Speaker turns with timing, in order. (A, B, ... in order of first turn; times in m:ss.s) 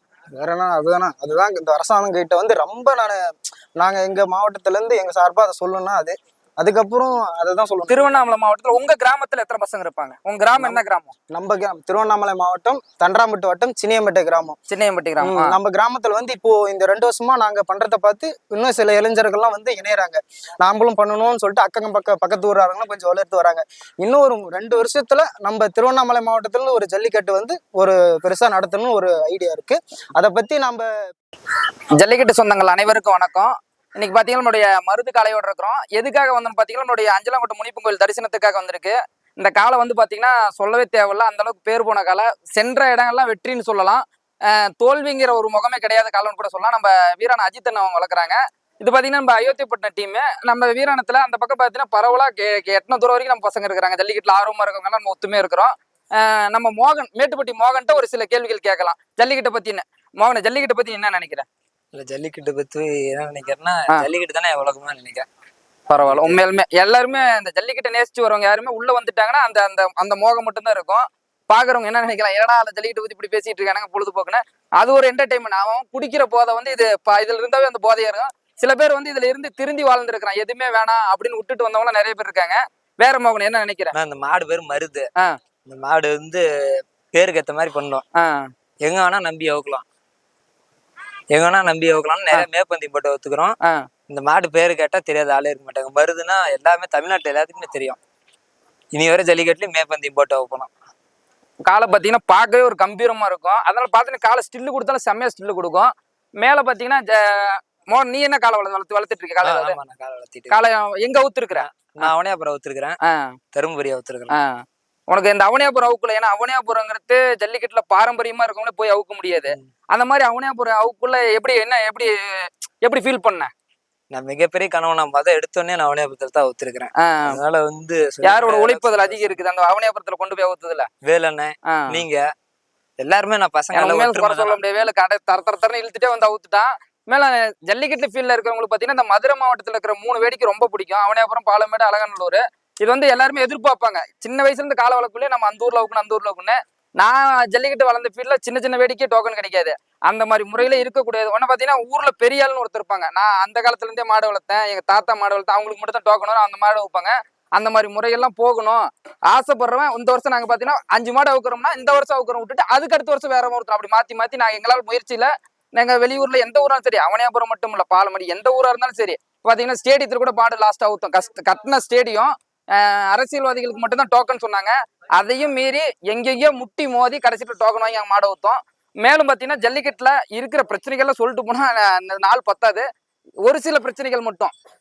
0:00.3-0:08.1 A
0:07.9-0:11.1 B
0:10.6-0:14.6 A
0:14.7-0:15.5 B
0:15.2-0:30.9 A
0:32.0-1:01.4 B
1:01.9-1:05.2 C
1:05.9-1:23.9 B
1:06.0-1:06.4 C
1:23.9-1:25.1 C
1:25.7-1:28.0 C
1:28.2-1:28.5 B
1:28.8-1:29.8 C
1:31.3-1:33.6 C
1:34.1-1:38.0 C
1:38.9-1:40.7 C
1:41.6-1:49.8 B
1:49.4-1:50.6 C
1:50.5-1:52.1 B
1:51.5-1:53.0 C
1:53.0-1:53.3 B
1:53.5-1:54.4 C
1:54.3-2:02.1 B
2:02.8-2:03.5 B
2:04.1-2:09.3 C
2:07.0-2:07.4 B
2:08.2-2:10.9 B
2:11.0-2:12.2 C
2:11.7-2:12.0 B
2:13.0-2:14.6 C
2:13.7-3:02.8 B
3:03.4-3:04.5 B